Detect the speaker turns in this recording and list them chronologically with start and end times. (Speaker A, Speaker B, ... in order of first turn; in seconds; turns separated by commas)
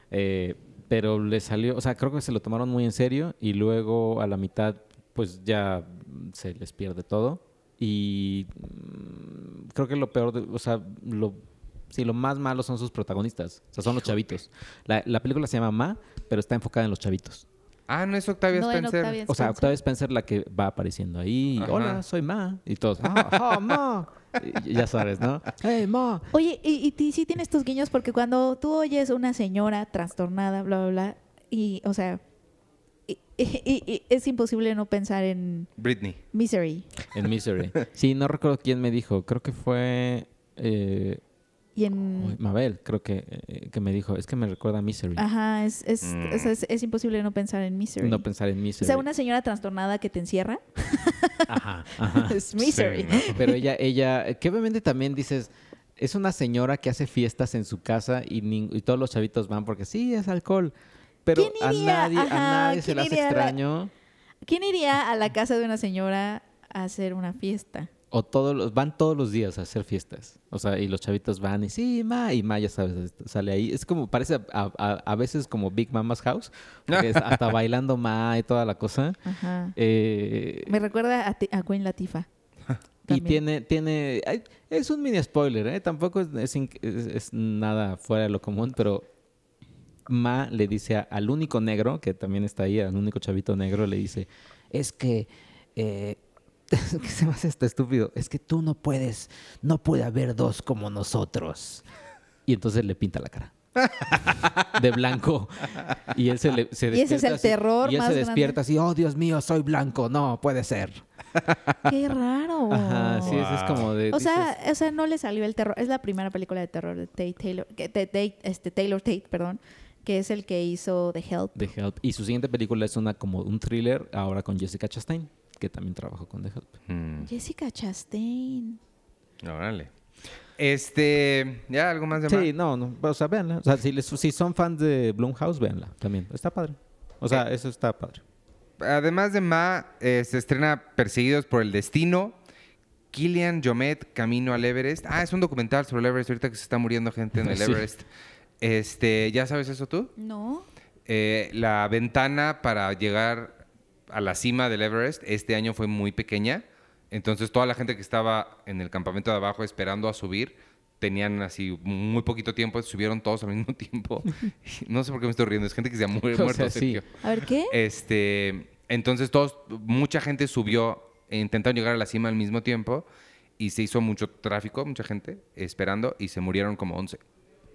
Speaker A: 0.1-17.4, Speaker B: 17.9-19.2, Speaker C: 18.5-19.7, Speaker A: 19.3-26.3, Speaker B: 21.6-22.0, Speaker B: 23.0-23.8, Speaker C: 26.3-32.2, Speaker C: 33.1-35.7, Speaker B: 35.8-36.2, Speaker C: 36.3-36.9, Speaker A: 37.1-41.2, Speaker C: 41.8-42.4, Speaker A: 42.2-45.2, Speaker C: 45.1-48.2, Speaker B: 46.0-46.5, Speaker A: 48.0-49.0, Speaker C: 48.8-53.6, Speaker A: 51.5-52.4, Speaker B: 52.6-53.3, Speaker A: 53.1-60.7, Speaker A: 61.2-63.9, Speaker C: 61.3-63.6, Speaker C: 64.4-67.9, Speaker A: 68.1-79.2, Speaker B: 76.9-77.4, Speaker C: 79.2-79.8, Speaker A: 79.7-80.7, Speaker C: 80.7-82.3, Speaker C: 83.1-83.4, Speaker A: 83.1-89.1, Speaker A: 90.1-101.8, Speaker A: 102.5-111.0, Speaker B: 103.8-104.8, Speaker C: 106.9-108.6, Speaker C: 111.8-113.4, Speaker A: 112.7-114.5, Speaker B: 113.2-113.9, Speaker C: 114.1-121.7, Speaker A: 121.5-126.8, Speaker B: 126.9-127.3, Speaker C: 127.2-128.8, Speaker B: 129.4-129.9, Speaker B: 130.6-132.5, Speaker A: 132.2-138.2, Speaker B: 138.8-142.4, Speaker B: 143.1-148.1, Speaker A: 147.4-147.8, Speaker B: 148.6-150.1, Speaker C: 150.2-150.6, Speaker B: 151.1-167.2, Speaker A: 166.3-167.0, Speaker C: 167.2-167.8, Speaker B: 167.7-173.1, Speaker B: 173.6-177.2